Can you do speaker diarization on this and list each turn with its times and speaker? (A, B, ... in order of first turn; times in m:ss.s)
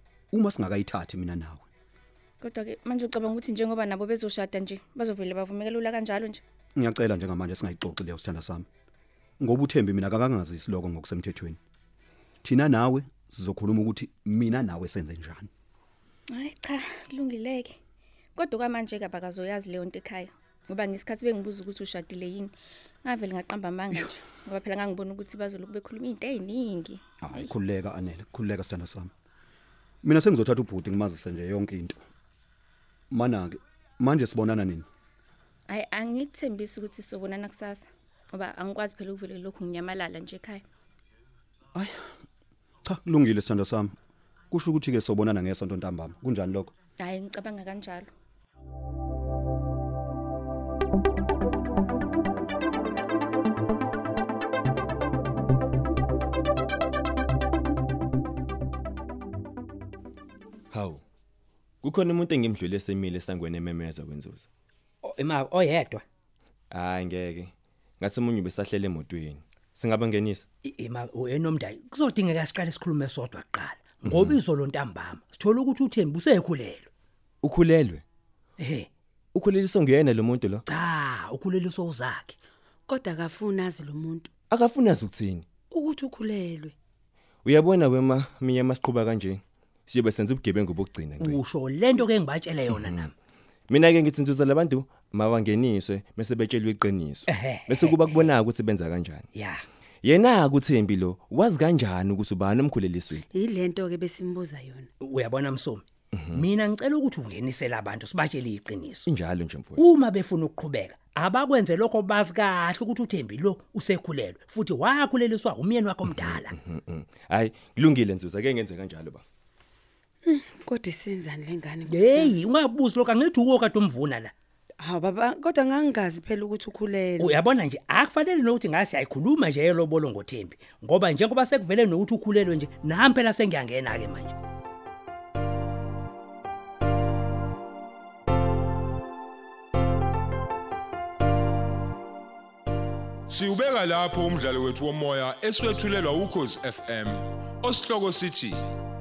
0:00.3-0:01.6 A
0:02.4-0:06.4 B
0:06.8-0:08.7 A
0:09.4-0:11.6 A
0:12.4-0:15.5 A
0:16.3-0:17.8 B
0:18.4-0:27.0 B
0:27.2-0:29.1 A
0:30.0-0:32.0 A
0:33.1-0:34.9 A
0:35.7-0:40.6 B
0:41.8-0:42.1 A
0:42.8-0:43.9 A
0:44.5-0:46.7 A
0:47.0-0:48.1 B
1:00.7-1:01.0 C
1:01.8-1:04.5 C
1:05.0-1:06.0 D
1:06.7-1:10.5 C
1:10.6-1:16.9 D
1:14.0-1:14.4 C
1:17.4-1:18.0 C
1:18.6-1:18.9 D
1:19.3-1:20.6 C
1:20.7-1:22.4 D
1:22.9-1:24.3 E
1:24.5-1:25.4 C
1:25.7-1:26.8 E
1:27.4-1:31.4 C
1:31.2-1:33.1 D
1:32.7-1:33.1 C
1:33.7-1:39.2 C
1:37.3-1:38.3 D
1:39.4-1:39.6 D
1:40.0-1:43.2 C
1:43.3-1:44.9 E
1:45.0-1:49.1 D
1:46.1-1:46.4 C
1:49.0-1:49.9 C
1:49.8-1:56.6 D
1:56.1-1:59.2 C
2:00.2-2:02.4 E
2:01.9-2:04.3 D
2:04.8-2:07.4 E
2:07.2-2:14.3 D
2:23.3-2:28.6 F